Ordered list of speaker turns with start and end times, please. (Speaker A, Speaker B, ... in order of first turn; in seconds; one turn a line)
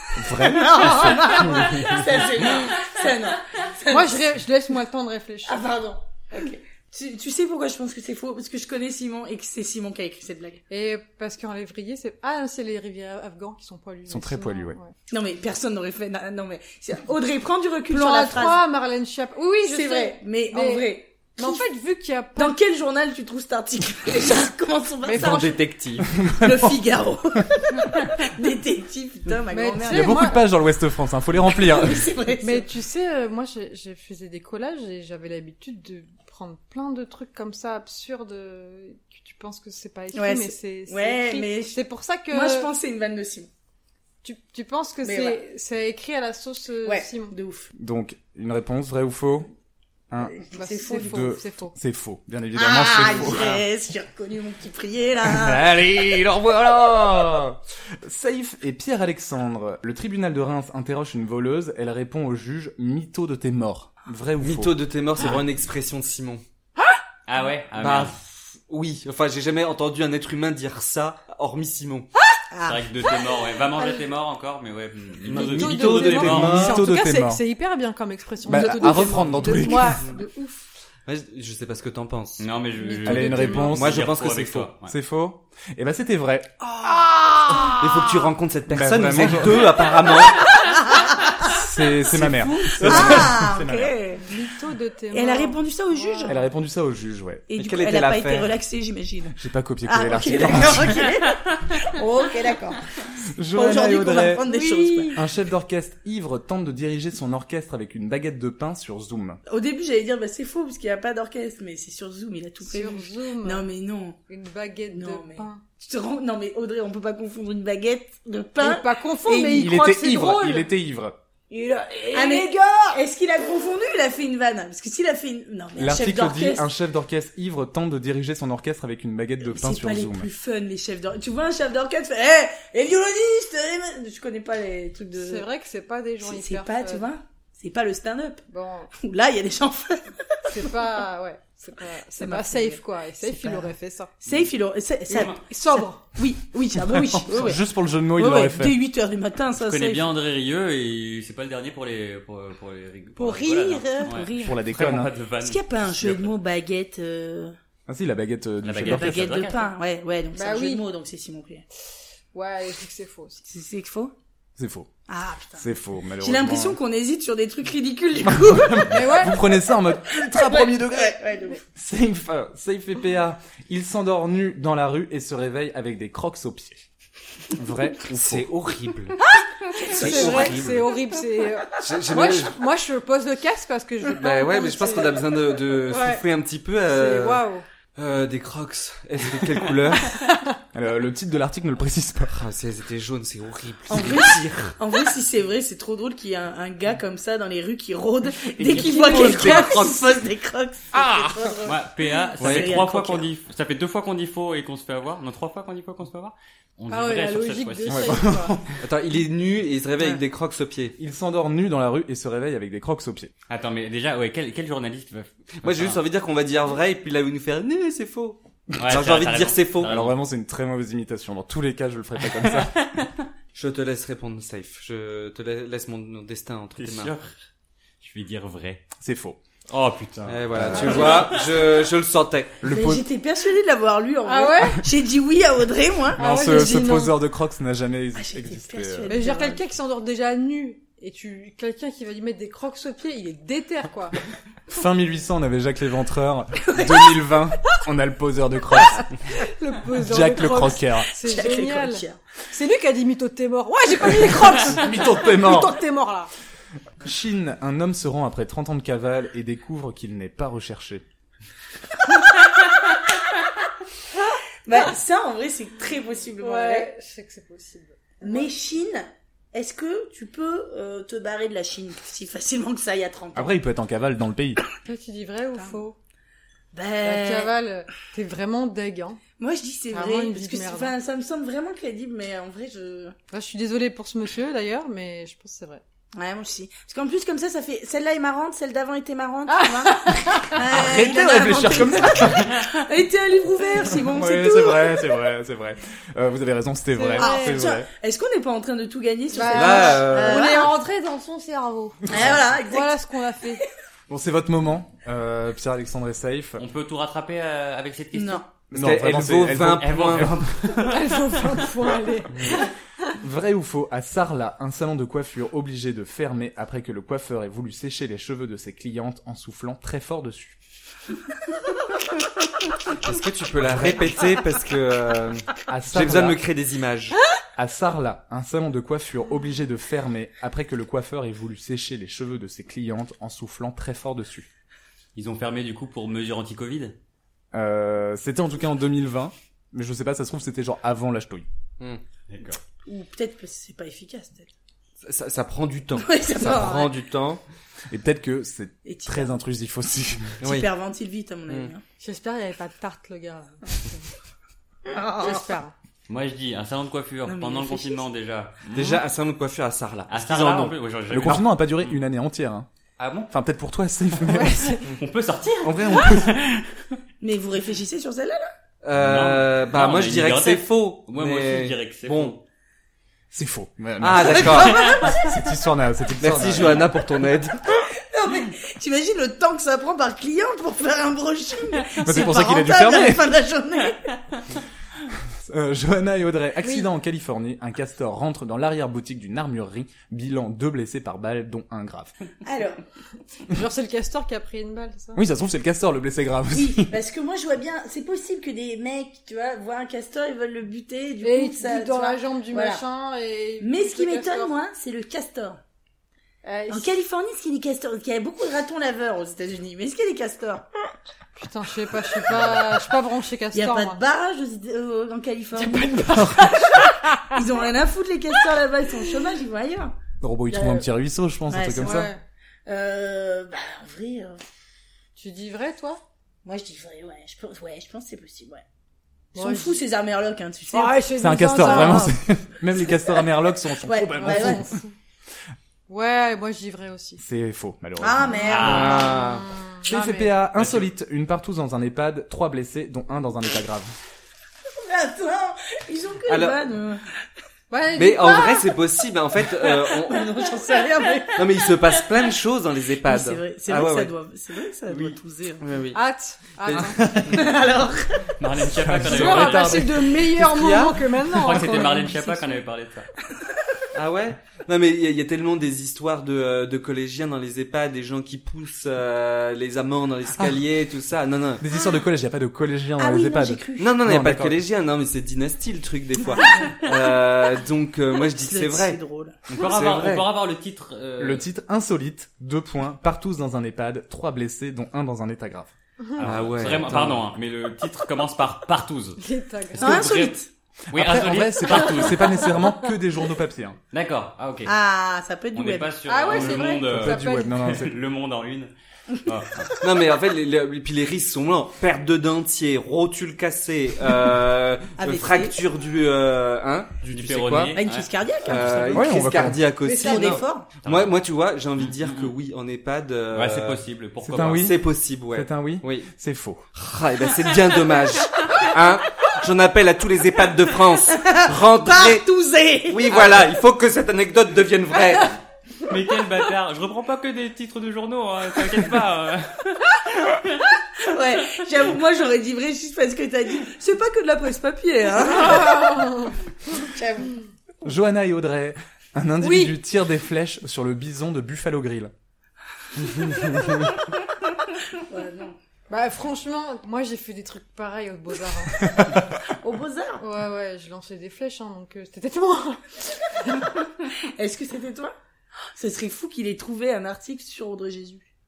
Speaker A: 0.1-2.0
Speaker B: 0.3-4.3
Speaker C: 3.9-5.7
Speaker B: 5.5-10.6
Speaker C: 10.7-14.9
Speaker A: 14.1-14.8
Speaker B: 15.1-18.6
Speaker C: 17.9-22.6
Speaker B: 19.6-21.6
Speaker B: 22.4-25.6
Speaker C: 25.0-25.6
Speaker D: 25.1-26.1
Speaker A: 26.0-26.8
Speaker B: 26.2-30.3
Speaker C: 29.5-30.4
Speaker A: 29.9-32.1
Speaker B: 31.5-32.7
Speaker C: 32.4-42.7
Speaker B: 40.1-43.5
Speaker C: 44.2-47.4
Speaker B: 45.0-45.4
Speaker B: 46.8-47.7
Speaker A: 47.8-49.5
Speaker A: 50.1-50.4
Speaker B: 50.2-51.2
Speaker C: 50.5-51.8
Speaker A: 50.9-53.6
Speaker B: 52.5-55.7
Speaker A: 55.2-64.8
Speaker D: 64.4-66.4
Speaker E: 67.3-68.2
Speaker D: 67.8-72.1
Speaker B: 72.5-72.9
Speaker E: 72.6-76.7
Speaker D: 75.3-76.8
Speaker A: 75.4-77.4
Speaker C: 75.4-80.7
Speaker A: 78.5-80.1
Speaker D: 81.1-82.5
Speaker E: 82.4-84.9
Speaker C: 82.8-83.7
Speaker A: 83.0-84.1
Speaker D: 83.7-84.7
Speaker A: 84.8-86.5
Speaker C: 86.8-87.6
Speaker A: 87.5-88.1
Speaker D: 87.8-90.5
Speaker A: 88.7-90.0
Speaker B: 90.5-94.3
Speaker A: 91.5-93.9
Speaker D: 92.2-93.3
Speaker C: 94.3-96.4
Speaker B: 95.1-96.4
Speaker A: 96.3-97.5
Speaker B: 97.5-105.1
Speaker D: 97.6-98.5
Speaker A: 99.4-101.1
Speaker A: 103.3-104.4
Speaker C: 104.5-105.2
Speaker A: 105.1-109.4
Speaker B: 109.5-114.2
Speaker C: 112.7-113.7
Speaker C: 114.3-115.6
Speaker B: 114.9-119.7
Speaker C: 118.6-120.7
Speaker A: 119.4-121.2
Speaker C: 121.5-122.5
Speaker B: 122.1-126.7
Speaker A: 125.8-130.3
Speaker B: 129.5-135.5
Speaker C: 135.2-137.1
Speaker B: 136.2-138.4
Speaker C: 138.5-138.9
Speaker B: 139.0-140.6
Speaker C: 140.5-144.1
Speaker B: 142.2-150.1
Speaker C: 145.1-146.0
Speaker E: 145.1-145.4
Speaker A: 146.8-148.8
Speaker E: 149.6-156.3
Speaker C: 153.2-154.1
Speaker B: 154.0-154.7
Speaker A: 154.4-155.1
Speaker B: 155.4-157.6
Speaker A: 157.9-159.4
Speaker E: 158.6-159.7
Speaker B: 158.8-161.6
Speaker C: 160.3-160.8
Speaker C: 162.3-163.4
Speaker B: 163.5-164.1
Speaker A: 164.6-164.9
Speaker B: 165.1-171.6
Speaker A: 165.6-166.8
Speaker A: 168.3-171.2
Speaker C: 168.9-169.4
Speaker A: 171.8-176.9
Speaker A: 177.5-178.5
Speaker D: 178.1-179.2
Speaker B: 179.7-180.9
Speaker C: 179.8-186.2
Speaker D: 179.9-181.0
Speaker D: 181.8-182.5
Speaker D: 184.1-187.4
Speaker C: 186.9-187.6
Speaker D: 188.0-190.2
Speaker C: 190.1-190.6
Speaker A: 190.7-192.3
Speaker D: 192.3-194.8
Speaker B: 193.9-201.8
Speaker E: 198.7-199.8
Speaker C: 198.7-199.9
Speaker D: 199.3-199.7
Speaker E: 201.7-208.3
Speaker B: 202.4-203.3
Speaker D: 202.4-202.8
Speaker C: 206.9-208.6
Speaker A: 207.9-208.8
Speaker D: 208.8-211.0
Speaker A: 211.0-213.3
Speaker E: 213.5-216.0
Speaker D: 215.6-219.9
Speaker E: 218.8-220.2
Speaker A: 219.8-222.8
Speaker E: 222.4-223.2
Speaker D: 223.6-227.1
Speaker E: 226.8-227.4
Speaker E: 228.0-228.9
Speaker A: 229.0-229.4
Speaker E: 229.7-231.8
Speaker D: 230.3-232.6
Speaker A: 230.5-231.1
Speaker B: 230.8-231.3
Speaker A: 232.6-233.1
Speaker B: 232.7-236.9
Speaker C: 234.2-234.8
Speaker A: 236.2-239.2
Speaker C: 236.2-237.2
Speaker B: 238.2-239.6
Speaker C: 239.1-244.2
Speaker A: 244.7-249.1
Speaker B: 246.7-247.3
Speaker C: 249.3-256.3
Speaker A: 249.9-251.1
Speaker B: 251.2-252.2
Speaker A: 254.1-255.8
Speaker A: 257.0-261.1
Speaker B: 264.7-266.9
Speaker C: 266.4-268.5
Speaker B: 268.2-273.6
Speaker A: 273.4-274.6
Speaker C: 274.8-276.0
Speaker B: 276.7-277.5
Speaker C: 277.0-279.2
Speaker B: 279.4-283.2
Speaker C: 279.9-280.9
Speaker C: 283.3-285.8
Speaker B: 286.1-295.1
Speaker C: 289.5-290.6
Speaker A: 290.7-292.6
Speaker A: 294.0-297.9
Speaker C: 296.9-297.6
Speaker B: 297.2-300.8
Speaker C: 299.3-303.6
Speaker D: 299.5-300.5
Speaker B: 302.1-303.7
Speaker A: 304.1-306.6
Speaker E: 306.6-308.4
Speaker B: 308.1-308.5
Speaker D: 308.7-310.4
Speaker A: 308.7-310.5
Speaker E: 309.8-311.1
Speaker C: 310.8-312.7
Speaker A: 313.2-320.6
Speaker D: 323.0-327.2
Speaker A: 323.6-324.1
Speaker A: 325.7-326.4
Speaker A: 327.6-334.5
Speaker E: 335.1-337.0
Speaker A: 337.5-341.5
Speaker E: 342.3-342.6
Speaker B: 342.9-344.5
Speaker D: 345.0-347.4
Speaker B: 346.0-347.0
Speaker A: 347.9-350.4
Speaker B: 348.8-349.3
Speaker D: 350.4-350.7
Speaker B: 350.4-351.8
Speaker C: 352.0-354.1
Speaker B: 354.9-355.5
Speaker C: 355.2-355.7
Speaker E: 356.1-359.0
Speaker B: 357.3-358.1
Speaker D: 358.7-360.8
Speaker E: 360.1-362.0
Speaker A: 361.1-362.7
Speaker E: 363.0-363.3
Speaker A: 363.3-364.8
Speaker C: 364.3-364.8
Speaker E: 365.0-367.0
Speaker A: 365.6-366.4
Speaker B: 367.2-368.5
Speaker D: 368.8-372.4
Speaker E: 368.9-372.4
Speaker A: 373.3-377.0
Speaker D: 374.0-374.9
Speaker B: 374.7-375.4
Speaker D: 376.2-377.6
Speaker B: 377.7-384.2
Speaker A: 382.0-383.3
Speaker A: 385.4-392.1
Speaker C: 386.6-386.9
Speaker B: 392.4-392.8
Speaker C: 393.5-395.2
Speaker A: 395.1-396.9
Speaker B: 396.5-402.8
Speaker C: 401.2-404.5
Speaker B: 403.6-405.6
Speaker C: 406.4-406.9
Speaker B: 406.7-410.7
Speaker C: 411.4-414.0
Speaker B: 413.5-420.0
Speaker C: 415.6-417.4
Speaker A: 420.2-422.1
Speaker B: 420.5-420.9
Speaker B: 421.5-422.1
Speaker C: 421.8-422.2
Speaker B: 422.7-424.4
Speaker C: 425.2-426.0
Speaker B: 426.4-428.6
Speaker B: 429.3-432.1
Speaker C: 429.4-429.8
Speaker C: 430.7-432.1
Speaker A: 431.1-434.7
Speaker B: 432.8-433.2
Speaker B: 433.8-434.6
Speaker C: 434.2-434.9
Speaker C: 435.9-437.2
Speaker A: 437.2-438.7
Speaker B: 438.0-439.1
Speaker C: 438.3-440.4
Speaker E: 438.4-439.1
Speaker D: 438.6-439.4
Speaker A: 439.9-443.9
Speaker B: 444.7-447.1
Speaker D: 446.3-446.6
Speaker C: 447.7-448.7
Speaker D: 447.9-450.3
Speaker B: 449.9-451.8
Speaker D: 451.4-454.1
Speaker B: 453.0-455.6
Speaker E: 454.9-455.1
Speaker D: 455.6-456.0
Speaker C: 455.9-457.2
Speaker D: 456.7-457.4
Speaker A: 457.0-457.3
Speaker B: 457.3-458.3
Speaker E: 458.4-459.9
Speaker A: 458.7-460.9
Speaker C: 459.1-462.4
Speaker D: 460.5-460.9
Speaker E: 461.3-463.1
Speaker B: 461.6-462.1
Speaker D: 463.9-471.6
Speaker A: 471.6-474.6
Speaker B: 473.0-474.0
Speaker D: 473.8-479.0
Speaker B: 476.3-476.7
Speaker B: 478.2-479.4
Speaker E: 479.5-481.5
Speaker D: 479.5-480.3
Speaker A: 481.2-485.7
Speaker E: 486.2-489.2
Speaker D: 486.2-487.2
Speaker A: 486.3-486.9
Speaker C: 489.2-490.1
Speaker E: 489.8-490.3
Speaker B: 489.8-490.5
Speaker E: 490.9-492.4
Speaker A: 490.9-493.8
Speaker C: 492.2-492.7
Speaker E: 493.9-494.7
Speaker B: 494.6-495.9
Speaker E: 495.5-498.7
Speaker C: 496.1-497.6
Speaker A: 496.6-498.0
Speaker E: 499.2-499.7
Speaker D: 499.8-507.8
Speaker B: 505.0-505.6
Speaker E: 507.1-508.1
Speaker B: 507.8-510.7
Speaker D: 508.4-513.8
Speaker A: 508.9-509.6
Speaker C: 509.8-510.4
Speaker E: 510.8-511.2
Speaker E: 511.9-512.3
Speaker E: 513.3-514.7
Speaker A: 514.2-516.7
Speaker D: 514.5-516.1
Speaker D: 516.8-522.2
Speaker B: 521.1-523.3
Speaker D: 522.9-525.4
Speaker E: 525.9-530.7
Speaker B: 531.0-536.2
Speaker C: 535.4-536.4
Speaker B: 536.7-537.4
Speaker A: 537.8-542.1
Speaker C: 539.4-539.8
Speaker B: 544.9-545.6
Speaker C: 545.9-548.9
Speaker B: 549.5-550.2
Speaker C: 550.2-553.7
Speaker B: 554.4-555.1
Speaker B: 555.8-558.3